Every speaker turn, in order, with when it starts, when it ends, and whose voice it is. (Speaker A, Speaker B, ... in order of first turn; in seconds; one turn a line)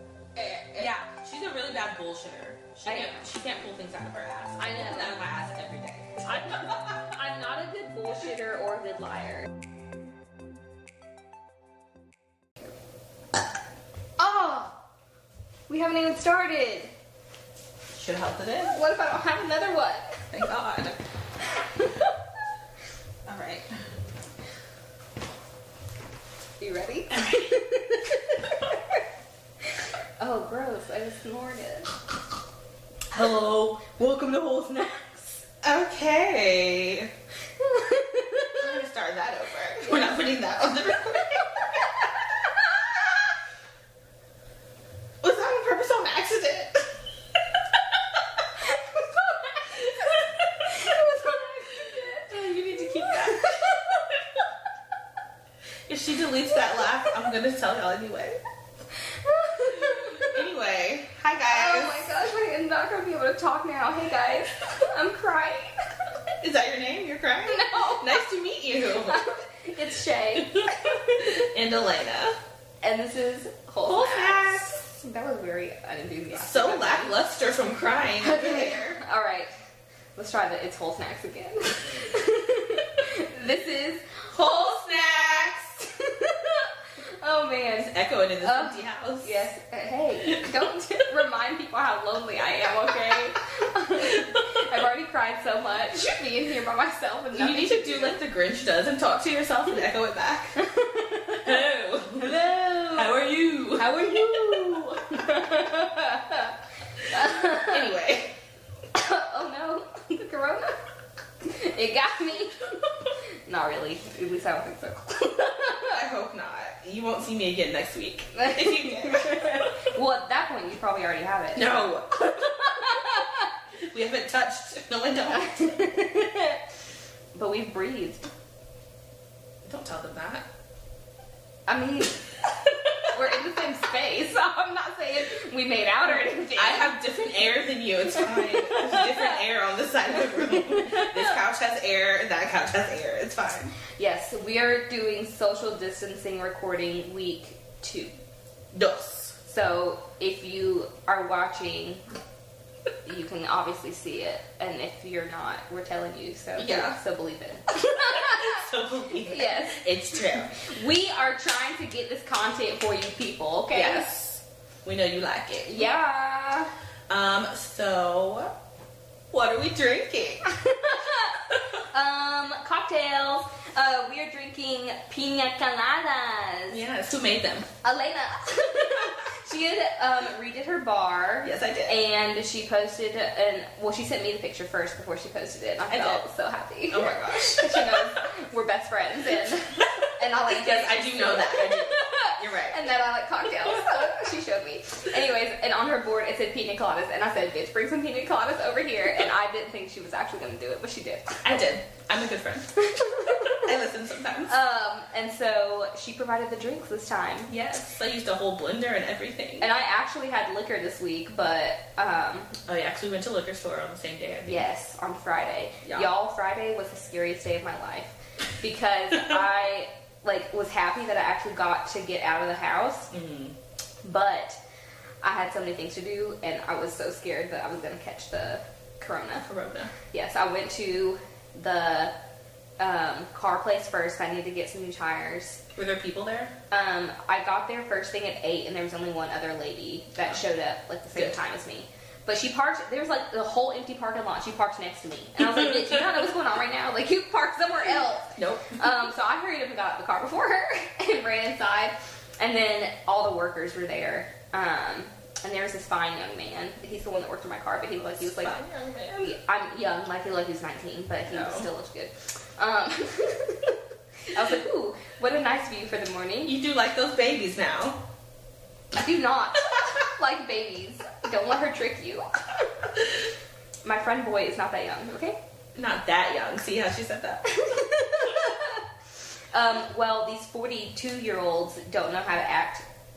Speaker A: 0.4-0.9
Speaker B: 0.7-6.8
Speaker A: 2.9-3.3
Speaker A: 4.6-5.2
Speaker A: 6.2-9.5
Speaker A: 14.2-14.7
Speaker A: 15.7-16.9
Speaker B: 17.9-18.8
Speaker A: 18.7-20.2
Speaker B: 20.3-21.0
Speaker B: 23.2-23.7
Speaker A: 26.6-28.8
Speaker B: 27.1-27.5
Speaker A: 30.2-31.9
Speaker B: 33.1-34.0
Speaker A: 33.9-35.4
Speaker B: 35.6-37.1
Speaker A: 37.6-38.7
Speaker B: 38.5-41.9
Speaker A: 39.8-40.2
Speaker A: 41.2-42.6
Speaker B: 45.2-46.9
Speaker A: 48.6-54.0
Speaker B: 52.1-53.6
Speaker B: 55.9-58.4
Speaker A: 59.1-60.4
Speaker B: 59.7-62.0
Speaker A: 61.5-65.9
Speaker B: 66.4-69.2
Speaker A: 67.5-68.2
Speaker A: 68.9-71.4
Speaker B: 70.4-72.4
Speaker A: 72.8-77.2
Speaker B: 73.8-74.8
Speaker B: 76.3-79.0
Speaker A: 78.2-79.5
Speaker A: 80.2-84.3
Speaker B: 81.8-82.1
Speaker B: 84.3-85.8
Speaker A: 85.8-87.9
Speaker B: 87.8-89.5
Speaker A: 88.4-98.2
Speaker B: 90.3-90.5
Speaker B: 94.1-94.4
Speaker B: 97.3-100.6
Speaker A: 100.6-103.1
Speaker B: 101.4-104.4
Speaker A: 103.7-108.0
Speaker B: 107.1-108.3
Speaker A: 108.9-110.8
Speaker A: 111.4-116.0
Speaker B: 115.8-119.9
Speaker A: 118.3-123.5
Speaker B: 121.5-122.8
Speaker B: 123.8-126.0
Speaker A: 125.3-126.6
Speaker A: 127.3-128.3
Speaker B: 129.6-130.4
Speaker A: 131.7-137.0
Speaker B: 136.5-143.7
Speaker A: 138.1-139.4
Speaker A: 140.4-141.1
Speaker A: 144.0-148.1
Speaker B: 148.7-149.3
Speaker A: 149.4-152.0
Speaker A: 153.0-159.8
Speaker B: 156.6-157.0
Speaker B: 158.0-160.7
Speaker A: 160.6-164.1
Speaker B: 163.7-165.9
Speaker A: 165.7-166.7
Speaker B: 167.1-168.6
Speaker B: 169.3-170.4
Speaker A: 170.5-176.8
Speaker B: 176.7-177.7
Speaker A: 177.8-201.6
Speaker B: 181.4-182.0
Speaker B: 185.9-186.2
Speaker B: 186.9-188.2
Speaker B: 190.0-192.9
Speaker B: 201.4-204.5
Speaker A: 202.8-203.7
Speaker A: 204.5-207.5
Speaker B: 207.5-209.7
Speaker A: 209.6-212.6
Speaker B: 212.7-214.6
Speaker A: 214.5-223.1
Speaker B: 223.1-223.6
Speaker A: 224.0-224.6
Speaker A: 225.2-229.4
Speaker B: 229.4-229.9
Speaker A: 230.1-232.1
Speaker A: 232.8-235.6
Speaker B: 235.7-236.5
Speaker A: 236.7-258.6
Speaker B: 248.3-248.8
Speaker B: 258.0-259.4
Speaker A: 259.2-263.8
Speaker B: 261.3-261.7
Speaker A: 264.3-266.5
Speaker B: 266.4-268.0
Speaker A: 268.9-272.9
Speaker A: 273.8-275.4
Speaker B: 275.7-277.6
Speaker A: 277.5-278.8
Speaker A: 279.5-282.8